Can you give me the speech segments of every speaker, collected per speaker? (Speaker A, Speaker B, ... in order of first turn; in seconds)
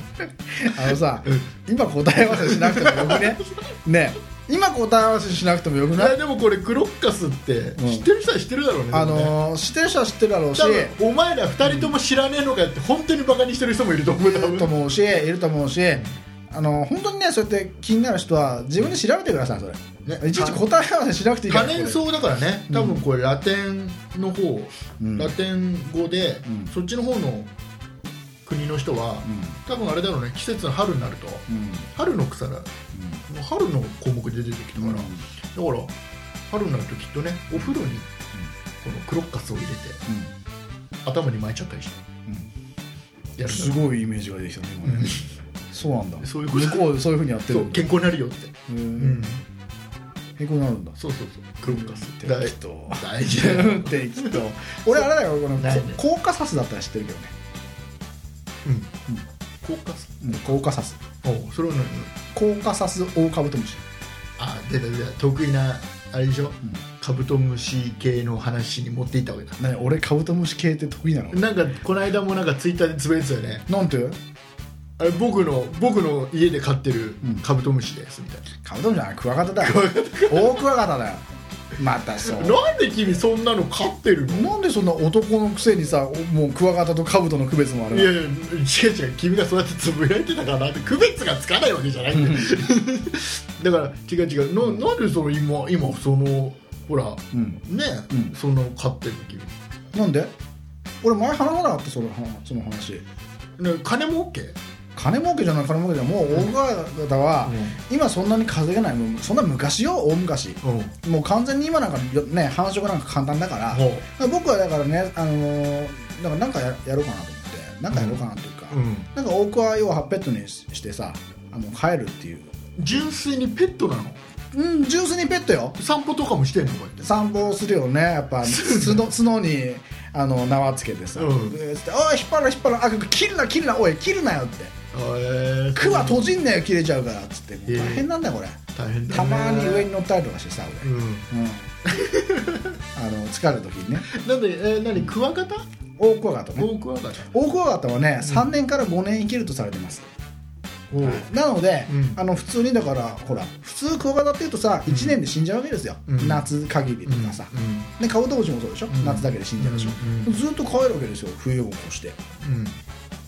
Speaker A: 0.5-6.2, 7.8-8.1, 8.9-10.9, 14.2-22.1, 22.7-23.0, 25.0-25.3, 29.2-29.6, 31.5-31.9, 32.9-33.2, 34.8-35.2, 40.1-40.3, 43.5-45.2, 45.7-47.9, 48.7-49.3, 50.4-51.0, 51.7-57.3, 60.2-61.0, 62.3-63.8, 69.6-71.4, 73.7-74.2, 78.6-81.2, 81.8-82.6, 84.3-88.1, 92.1-92.5, 97.3-98.3, 99.9-100.3, 101.0-103.0, 105.0-122.5, 124.5-125.8, 127.0-134.7, 135.8-141.7, 142.9-144.1, 146.0-146.7, 147.2-150.1, 151.0-162.2
Speaker B: 1.2-1.5, 2.3-3.5, 5.9-9.3, 10.6-14.8, 20.1-20.6, 21.5-27.5, 28.4-32.7, 33.3-35.9, 36.5-38.1, 38.8-40.0, 41.0-42.0, 43.4-43.9, 44.8-45.2, 46.2-46.9, 47.5-49.4, 51.0-56.0, 58.6-58.9, 59.6-60.5, 61.2-62.1, 64.4-69.6, 71.3-73.7, 75.0-78.5, 79.6-80.6, 82.2-84.5, 87.9-99.5, 103.6-104.6, 106.3-106.5, 107.4-107.8, 110.6-110.9, 113.7-114.1, 117.9-119.1, 122.8-124.2, 125.8-127.1, 128.4-129.1, 131.2-131.6, 134.9-136.4, 137.7-138.1, 138.7-139.9, 140.8-141.3, 141.8-142.7, 144.1-145.6, 146.6-147.3, 148.2-148.5, 150.9-151.3, 151.9-152.2, 154.9-155.2, 156.1-156.5, 157.0-157.9, 158.9-160.4, 162.4-162.8